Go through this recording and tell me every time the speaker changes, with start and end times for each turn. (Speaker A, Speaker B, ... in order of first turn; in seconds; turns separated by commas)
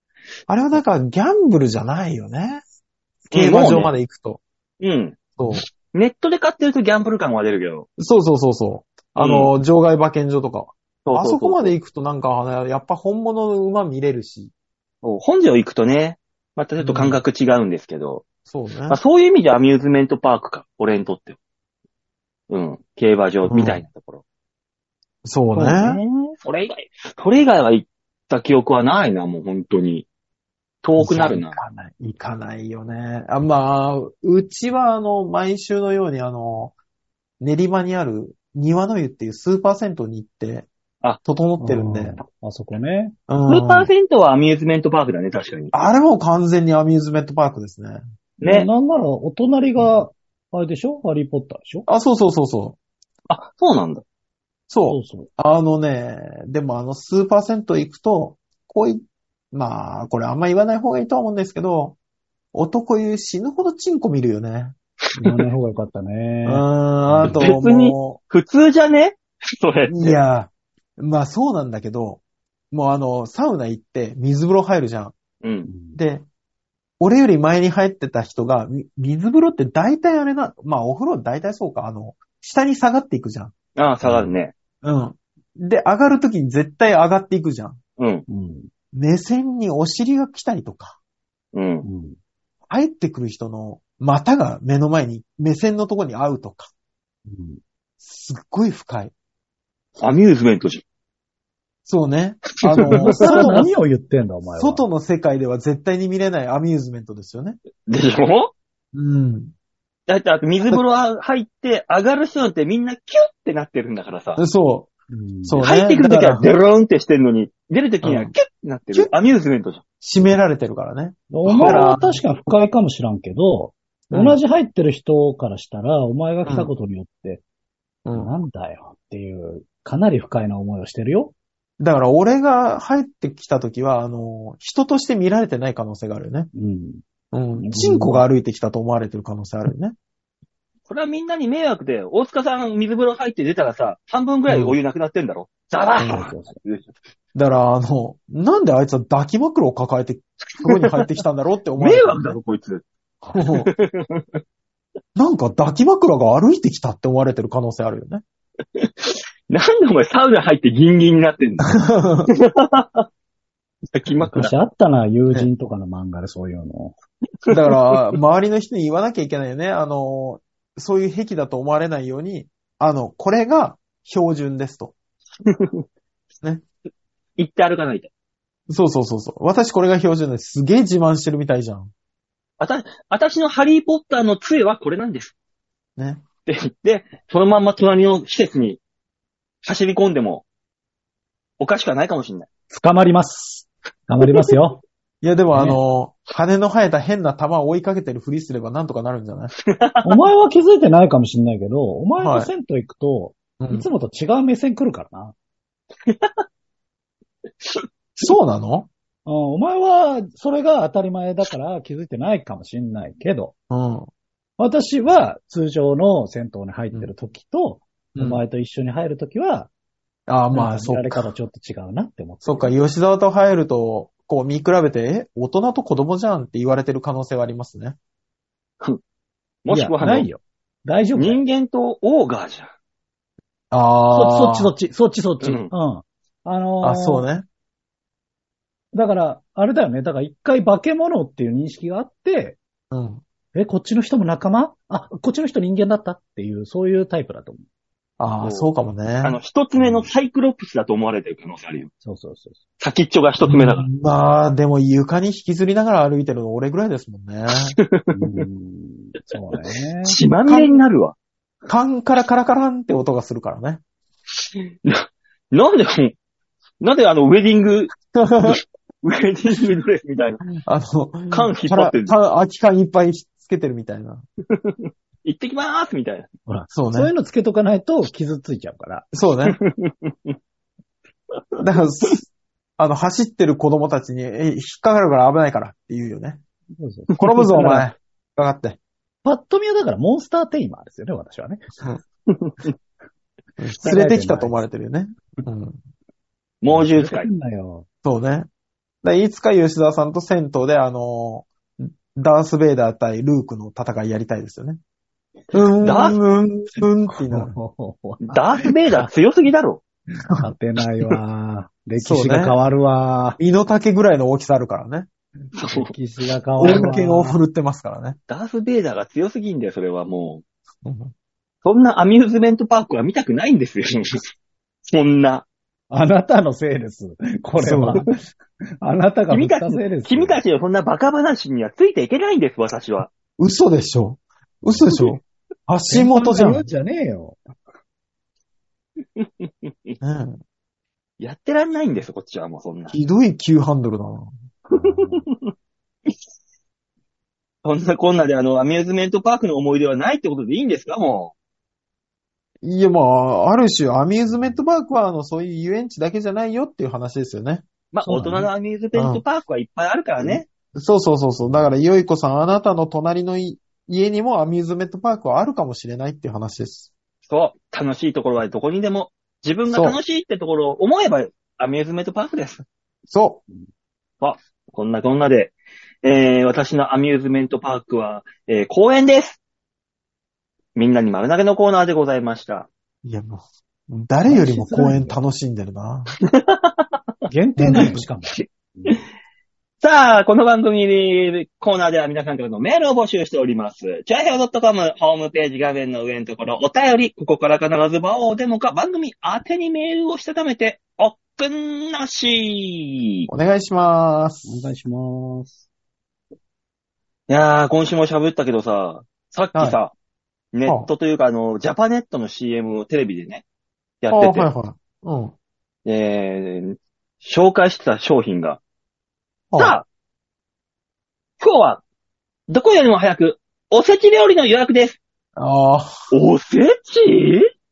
Speaker A: 0.5-2.6, Speaker B: 3.3-3.9, Speaker A: 3.3-4.4, Speaker B: 4.8-7.9, Speaker A: 5.4-5.7, Speaker A: 8.0-14.5, Speaker B: 9.2-9.5, Speaker B: 11.0-11.7, Speaker B: 15.0-18.2, Speaker A: 16.8-17.2, Speaker A: 18.4-19.0, Speaker B: 18.9-21.4, Speaker B: 22.5-24.2, Speaker A: 23.4-23.8, Speaker A: 25.2-26.0, Speaker B: 25.5-30.1, Speaker B: 30.8-31.6, Speaker A: 31.0-36.7, Speaker A: 37.4-40.7, Speaker A: 41.2-42.2, Speaker C: 41.6-43.1, Speaker A: 43.3-43.9, Speaker B: 43.5-45.7, Speaker A: 45.7-48.0, Speaker B: 48.4-48.7, Speaker C: 48.4-51.9, Speaker A: 49.8-50.0, Speaker A: 51.9-52.8, Speaker B: 53.3-54.0, Speaker A: 54.7-62.0, Speaker C: 54.9-55.3, Speaker A: 62.5-64.8, Speaker B: 65.1-65.4, Speaker C: 65.2-67.5, Speaker A: 66.4-68.2, Speaker B: 67.3-70.2, Speaker A: 69.9-75.1, Speaker B: 75.4-75.7, Speaker C: 75.6-76.0, Speaker A: 75.9-76.2, Speaker A: 77.0-83.5, Speaker B: 83.8-84.5, Speaker C: 84.0-84.3, Speaker A: 84.8-87.8, Speaker B: 88.0-88.2, Speaker C: 88.3-88.7, Speaker A: 88.9-91.0, Speaker B: 91.5-91.9, Speaker C: 91.8-92.2, Speaker A: 92.7-96.7, Speaker C: 97.3-97.6, Speaker A: 98.0-99.1, Speaker B: 100.0-100.8, Speaker A: 101.8-103.7, Speaker B: 102.6-103.7, Speaker C: 102.8-104.8, Speaker A: 104.5-107.6, Speaker B: 107.9-108.5, Speaker A: 108.9-109.5, Speaker B: 110.1-114.4, Speaker A: 114.4-114.9, Speaker C: 115.1-115.6, Speaker A: 115.4-116.5, Speaker B: 115.6-119.8, Speaker A: 118.0-118.3, Speaker A: 120.0-122.2, Speaker C: 121.3-127.4, Speaker B: 121.4-121.9, Speaker A: 124.1-124.4, Speaker A: 126.4-126.7, Speaker A: 128.0-128.3, Speaker C: 128.1-131.3, Speaker A: 131.8-136.5, Speaker C: 136.5-137.0, Speaker A: 137.3-139.9, Speaker C: 137.6-138.2, Speaker B: 140.9-146.9, Speaker A: 144.5-144.8, Speaker A: 146.0-146.3, Speaker C: 146.1-146.6, Speaker A: 147.3-152.4, Speaker B: 150.5-151.1, Speaker B: 151.8-152.8, Speaker A: 153.2-153.7, Speaker B: 153.5-154.4, Speaker A: 155.2-158.2, Speaker B: 158.8-161.8, Speaker A: 161.6-162.3, Speaker B: 162.3-163.1, Speaker B: 163.9-164.5, Speaker C: 164.2-166.9, Speaker B: 167.4-167.9, Speaker A: 167.5-174.9, Speaker B: 175.4-175.8, Speaker B: 177.4-178.1, Speaker A: 178.7-181.9, Speaker B: 182.6-185.3, Speaker A: 186.0-186.2, Speaker B: 186.4-188.8, Speaker B: 189.6-190.4, Speaker B: 191.6-192.5, Speaker C: 192.7-194.8, Speaker A: 195.2-199.5, Speaker C: 195.5-195.8, Speaker B: 199.7-200.2, Speaker C: 200.0-205.3, Speaker A: 202.2-202.5, Speaker A: 203.6-203.9, Speaker B: 206.0-206.4, Speaker A: 208.2-208.9, Speaker C: 209.2-213.5, Speaker A: 213.7-214.1, Speaker C: 214.6-219.7, Speaker A: 218.1-218.4, Speaker A: 220.3-221.3, Speaker C: 220.5-222.8, Speaker A: 222.4-228.0, Speaker B: 229.6-230.3, Speaker C: 229.7-231.4, Speaker B: 231.2-232.7, Speaker A: 233.7-234.7, Speaker C: 234.1-237.3, Speaker B: 235.4-235.7, Speaker A: 236.8-237.4, Speaker C: 238.9-242.6, Speaker A: 242.9-243.2, Speaker C: 243.5-247.6, Speaker A: 248.2-249.4, Speaker B: 248.4-248.7, Speaker B: 249.2-251.9, Speaker C: 249.8-250.1, Speaker C: 252.0-252.6, Speaker B: 252.8-253.9, Speaker A: 253.4-257.8, Speaker B: 257.8-258.2, Speaker C: 258.1-260.2, Speaker B: 260.0-261.1, Speaker A: 260.5-260.8, Speaker A: 261.7-263.8, Speaker B: 264.8-266.1, Speaker B: 266.8-270.5, Speaker A: 268.0-268.6, Speaker A: 270.6-274.2, Speaker B: 271.3-272.1, Speaker B: 274.5-276.3, Speaker C: 276.5-279.1, Speaker A: 276.7-277.1, Speaker A: 279.1-279.6, Speaker B: 279.5-280.4, Speaker B: 281.3-282.1, Speaker A: 281.6-282.3, Speaker A: 282.8-286.4, Speaker C: 286.8-287.9, Speaker A: 287.2-288.8, Speaker C: 289.2-291.6, Speaker B: 292.3-292.6, Speaker A: 293.6-295.8, Speaker C: 293.8-294.6, Speaker B: 296.6-297.3, Speaker C: 296.7-297.9, Speaker A: 298.0-298.5, Speaker A: 299.0-304.8, Speaker A: 305.5-307.5, Speaker B: 305.8-306.2, Speaker C: 307.1-308.6, Speaker B: 308.3-309.8, Speaker C: 310.4-313.4, Speaker A: 312.0-312.5, Speaker A: 313.4-315.1, Speaker B: 315.5-315.9, Speaker C: 315.7-317.4, Speaker A: 316.6-318.2, Speaker B: 316.6-316.9, Speaker B: 318.3-320.4, Speaker A: 320.8-321.1, Speaker B: 321.6-324.3, Speaker B: 324.9-325.4, Speaker C: 325.9-328.2, Speaker A: 327.6-328.0, Speaker C: 328.8-330.4, Speaker B: 329.3-333.1, Speaker A: 333.4-336.6, Speaker C: 335.9-337.4, Speaker B: 339.2-339.9, Speaker A: 340.0-340.4, Speaker B: 341.2-343.0, Speaker A: 342.9-344.3, Speaker C: 344.7-345.2, Speaker B: 344.8-345.5, Speaker B: 347.6-351.3, Speaker A: 352.6-359.2, Speaker C: 354.3-354.6, Speaker B: 357.9-360.5, Speaker C: 358.0-358.5, Speaker A: 360.2-366.9, Speaker B: 367.3-372.6, Speaker A: 369.7-370.0, Speaker A: 373.1-373.4, Speaker B: 374.2-375.5, Speaker B: 376.0-379.4, Speaker B: 380.8-382.7, Speaker A: 383.0-386.1, Speaker C: 384.3-385.2, Speaker B: 386.3-386.9, Speaker C: 387.3-389.0, Speaker A: 387.6-388.0, Speaker B: 387.7-389.0, Speaker B: 389.8-403.3, Speaker A: 403.3-404.7, Speaker C: 404.4-405.6, Speaker B: 407.3-409.9, Speaker B: 410.5-413.4, Speaker B: 414.0-414.5, Speaker A: 414.1-415.3, Speaker B: 415.8-418.6, Speaker A: 419.5-419.8, Speaker B: 419.6-419.8, Speaker B: 421.4-421.8, Speaker B: 422.5-425.0, Speaker A: 425.4-425.9, Speaker B: 426.1-427.4